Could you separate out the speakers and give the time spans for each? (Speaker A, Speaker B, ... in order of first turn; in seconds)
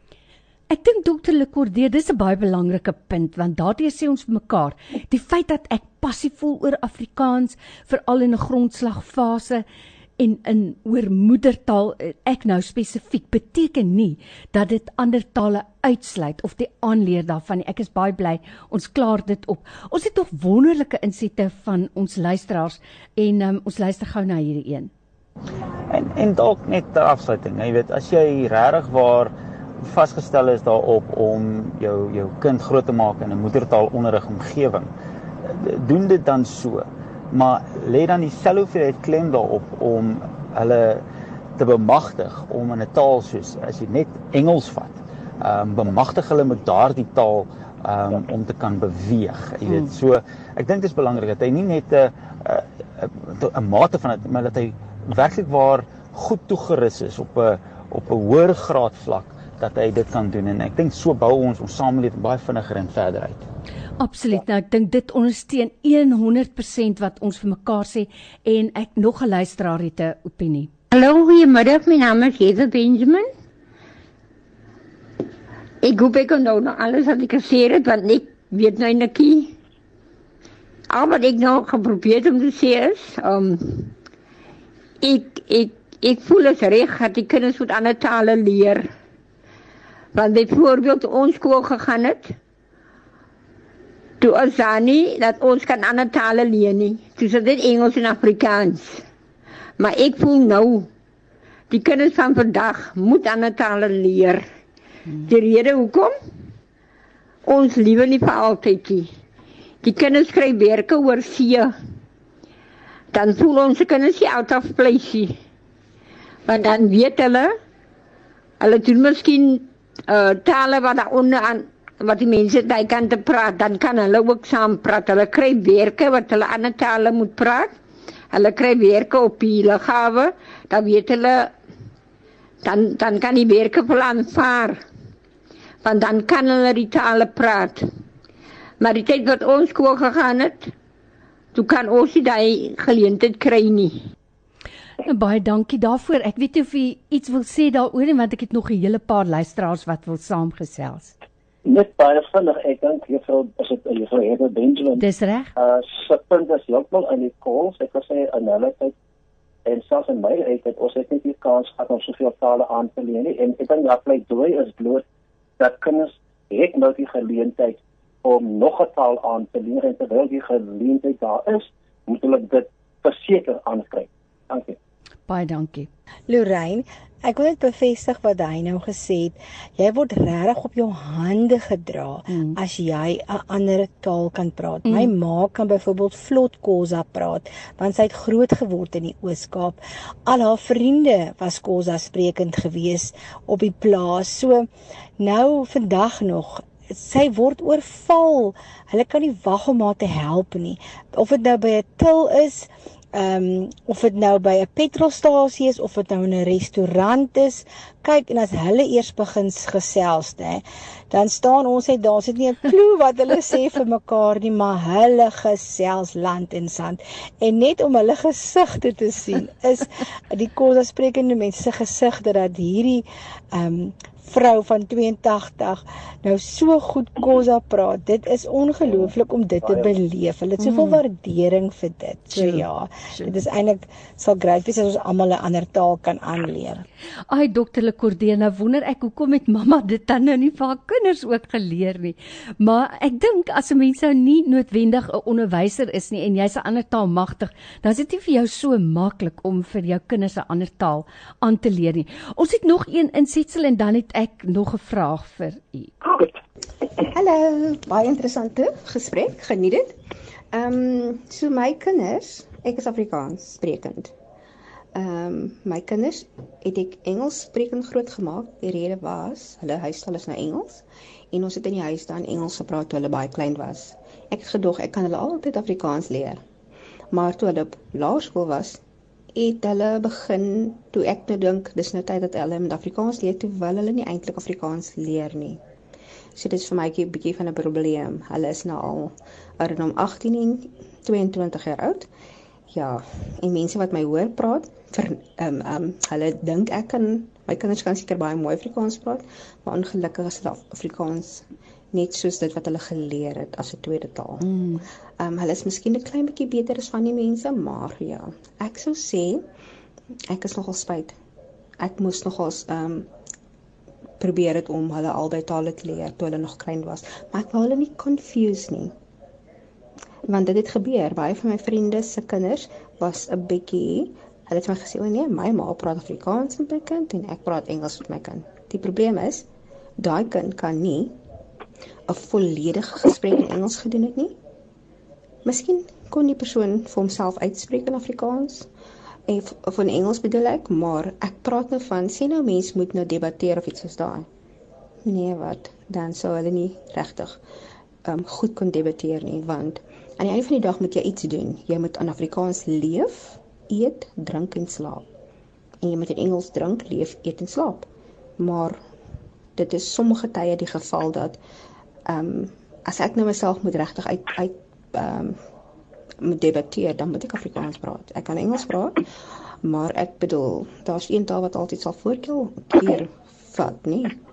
Speaker A: 0.7-9.6, 10.2-24.9, 64.0-70.7, 145.1-151.2, 155.0-155.5, 175.3-175.9, 182.3-182.6, 184.8-185.1, 230.6-231.0, 232.3-233.3, 237.3-255.9, 304.4-304.9
Speaker B: 25.9-34.9, 35.4-41.1, 41.6-63.4
Speaker C: 70.9-73.3, 75.8-79.5, 80.9-83.9, 85.0-88.9, 90.2-92.3, 94.2-99.0, 99.8-100.9, 101.7-104.4, 105.2-106.1, 107.5-109.1, 109.8-111.7, 113.1-115.4, 116.5-117.5, 118.6-127.7, 128.3-131.5, 132.6-134.8, 135.8-137.8, 138.8-140.7, 141.6-143.9
Speaker D: 151.7-155.0, 155.6-158.9, 159.7-165.0, 165.6-174.8
Speaker E: 176.3-236.8
Speaker F: 257.1-260.0, 260.5-264.1, 264.9-276.4, 277.1-278.8, 279.4-285.6, 286.4-292.1, 292.7-304.5, 305.2-309.5, 310.3-311.2, 311.8-313.1, 314.2-318.9, 320.3-329.5, 330.0-331.2, 332.1-334.4, 335.4-338.7, 339.3-344.3, 345.0-347.4, 348.1-355.1, 355.8-358.8, 359.6-361.4, 362.1-365.4, 366.2-369.1, 369.6-374.2